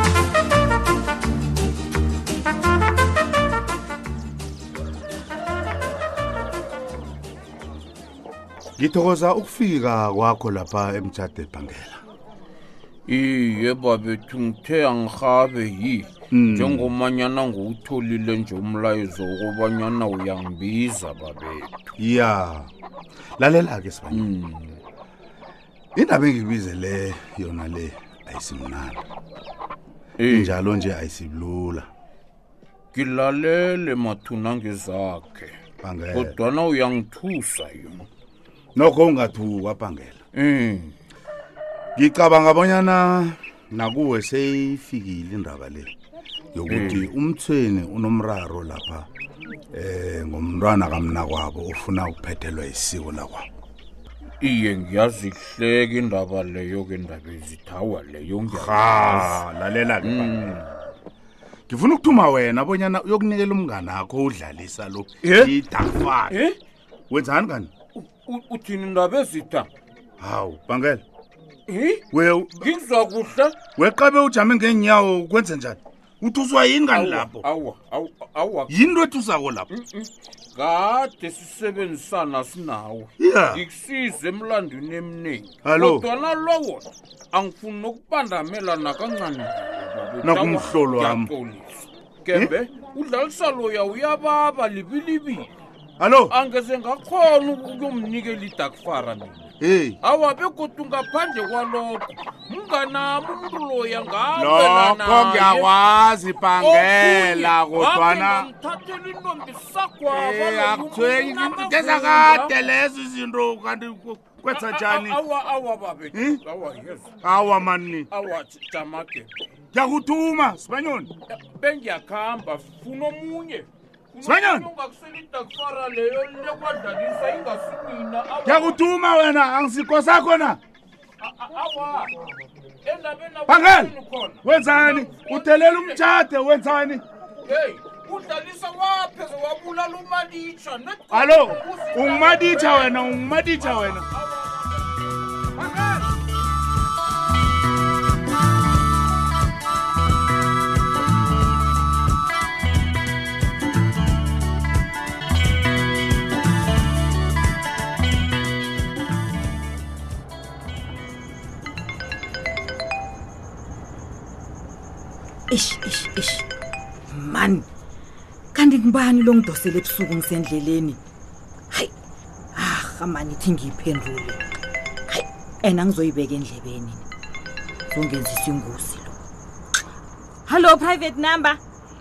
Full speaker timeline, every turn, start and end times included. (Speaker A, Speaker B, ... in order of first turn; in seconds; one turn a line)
Speaker A: 8.8-12.0
Speaker B: 13.1-21.7
Speaker A: 16.3-16.9
Speaker A: 22.0-22.7
Speaker A: 23.4-24.3
Speaker B: 24.1-24.8
Speaker A: 25.9-29.0
Speaker B: 30.2-30.5
Speaker A: 30.3-31.9
Speaker B: 32.9-35.5
Speaker A: 35.8-36.3
Speaker B: 36.1-38.0
Speaker A: 38.8-40.2
Speaker B: 40.3-40.9
Speaker A: 42.0-45.9
Speaker A: 46.5-49.1
Speaker B: 46.7-47.1
Speaker A: 49.7-53.5
Speaker B: 54.4-59.4
Speaker A: 58.5-60.7
Speaker B: 60.0-60.6
Speaker A: 61.7-66.4
Speaker B: 65.2-65.5
Speaker B: 66.3-66.6
Speaker A: 67.1-67.7
Speaker B: 68.0-69.7
Speaker A: 70.2-71.0
Speaker B: 71.7-72.0
Speaker A: 72.1-72.7
Speaker B: 72.6-73.5
Speaker A: 73.8-77.5
Speaker B: 76.9-78.8
Speaker A: 78.7-79.7
Speaker B: 79.7-95.5
Speaker A: 83.2-83.6
Speaker A: 85.6-86.1
Speaker A: 90.2-91.3
Speaker A: 96.0-96.3
Speaker B: 96.3-99.5
Speaker A: 99.6-100.0
Speaker B: 100.0-105.7
Speaker A: 104.3-108.5
Speaker B: 106.6-112.5
Speaker A: 110.1-115.2
Speaker B: 114.5-117.1
Speaker A: 116.1-116.4
Speaker A: 117.2-118.1
Speaker B: 118.1-119.3
Speaker A: 119.7-121.1
Speaker B: 121.3-128.8
Speaker A: 124.2-124.7
Speaker A: 128.4-130.6
Speaker B: 131.2-132.1
Speaker B: 132.8-136.0
Speaker A: 133.5-137.0
Speaker B: 137.4-146.1
Speaker A: 141.1-144.1
Speaker C: 165.5-166.4
Speaker C: 167.1-167.6
Speaker C: 168.5-171.0
Speaker C: 172.5-174.4
Speaker C: 175.1-177.0
Speaker C: 177.9-179.1
Speaker C: 180.5-181.6